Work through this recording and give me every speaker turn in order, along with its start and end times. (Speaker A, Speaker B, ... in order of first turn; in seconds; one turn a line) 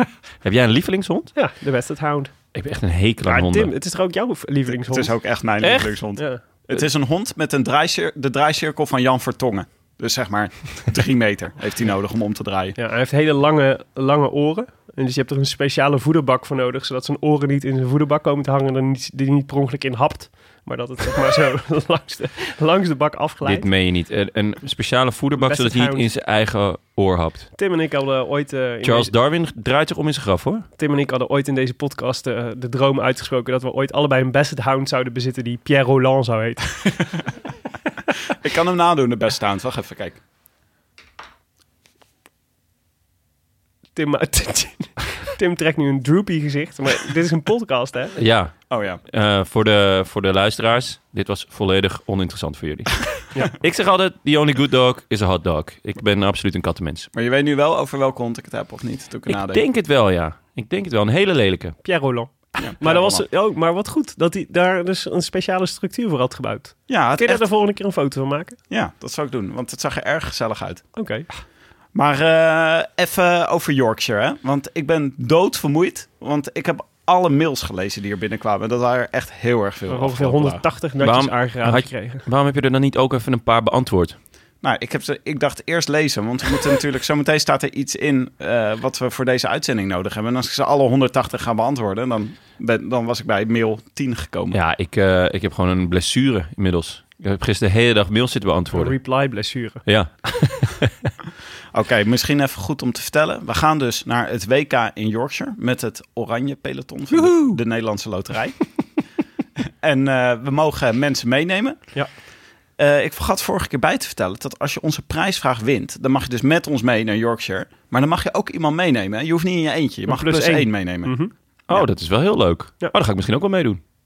Speaker A: 0.4-1.3
Speaker B: 1.3-2.3
Speaker A: 2.5-3.7
Speaker B: 3.2-6.8
Speaker C: 4.8-12.8
Speaker B: 12.8-23.7
Speaker A: 23.4-27.5
Speaker B: 25.4-26.1
Speaker B: 27.6-29.1
Speaker A: 28.8-30.7
Speaker B: 30.8-36.9
Speaker C: 38.4-40.2
Speaker B: 43.9-48.1
Speaker A: 48.2-48.5
Speaker C: 48.7-49.0
Speaker A: 49.1-57.1
Speaker C: 57.1-59.6
Speaker A: 59.3-61.8
Speaker B: 61.8-68.6
Speaker C: 62.6-63.2
Speaker C: 66.9-67.4
Speaker C: 68.7-70.8
Speaker B: 71.0-71.3
Speaker C: 71.9-80.6
Speaker B: 79.9-82.2
Speaker A: 81.0-84.2
Speaker C: 84.6-94.5
Speaker A: 94.5-99.0
Speaker B: 98.7-99.8
Speaker A: 99.8-101.1
Speaker C: 101.7-108.6
Speaker B: 107.1-107.6
Speaker C: 109.8-111.9
Speaker C: 112.8-121.1
Speaker B: 120.1-121.3
Speaker A: 121.7-123.8